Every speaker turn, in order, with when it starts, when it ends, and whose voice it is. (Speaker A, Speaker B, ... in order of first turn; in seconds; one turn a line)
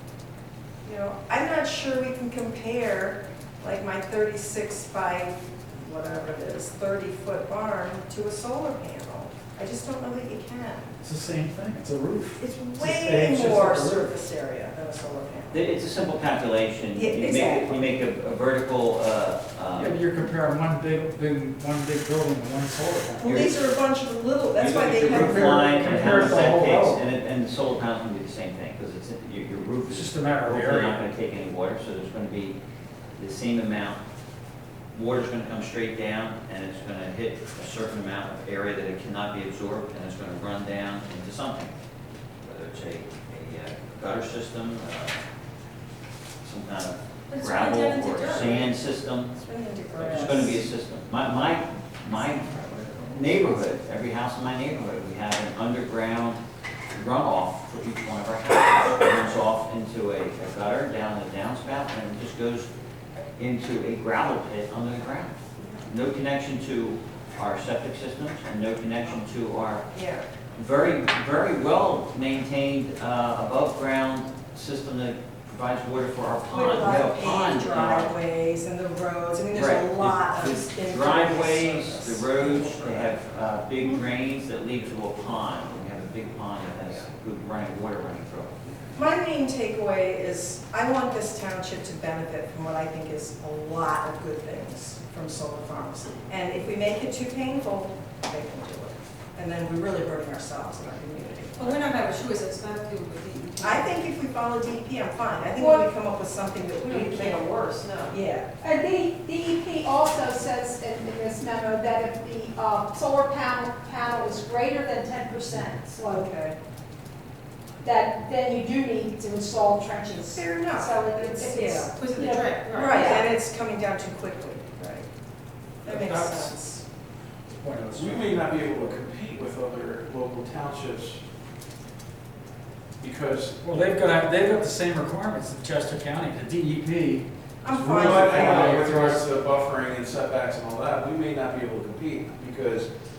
Speaker A: 0.8-10.9
Speaker B: 11.0-14.2
Speaker A: 12.4-15.6
Speaker C: 15.5-20.0
Speaker A: 16.9-17.8
Speaker B: 19.8-23.5
Speaker A: 23.2-26.4
Speaker C: 23.2-23.5
Speaker C: 24.6-32.6
Speaker B: 25.0-27.0
Speaker B: 29.9-31.0
Speaker C: 33.2-34.0
Speaker C: 34.9-41.7
Speaker C: 42.4-45.2
Speaker C: 46.4-49.4
Speaker D: 47.3-48.8
Speaker A: 49.3-50.6
Speaker C: 50.0-56.4
Speaker A: 52.5-53.2
Speaker C: 56.9-62.7
Speaker C: 63.4-65.3
Speaker A: 65.6-65.8
Speaker C: 65.9-69.8
Speaker A: 69.9-70.2
Speaker C: 70.5-78.1
Speaker A: 76.5-83.2
Speaker C: 79.5-88.7
Speaker A: 88.9-101.9
Speaker D: 101.5-104.0
Speaker A: 103.6-107.4
Speaker E: 105.6-105.8
Speaker D: 106.8-108.2
Speaker A: 108.1-108.5
Speaker E: 108.6-116.3
Speaker A: 116.1-116.5
Speaker E: 117.8-123.3
Speaker A: 120.2-121.9
Speaker D: 121.9-123.2
Speaker A: 122.7-125.1
Speaker B: 125.8-126.6
Speaker A: 125.8-126.8
Speaker B: 127.5-128.4
Speaker F: 127.9-131.2
Speaker F: 133.0-133.7
Speaker B: 133.6-139.2
Speaker A: 137.6-138.9
Speaker F: 137.8-142.9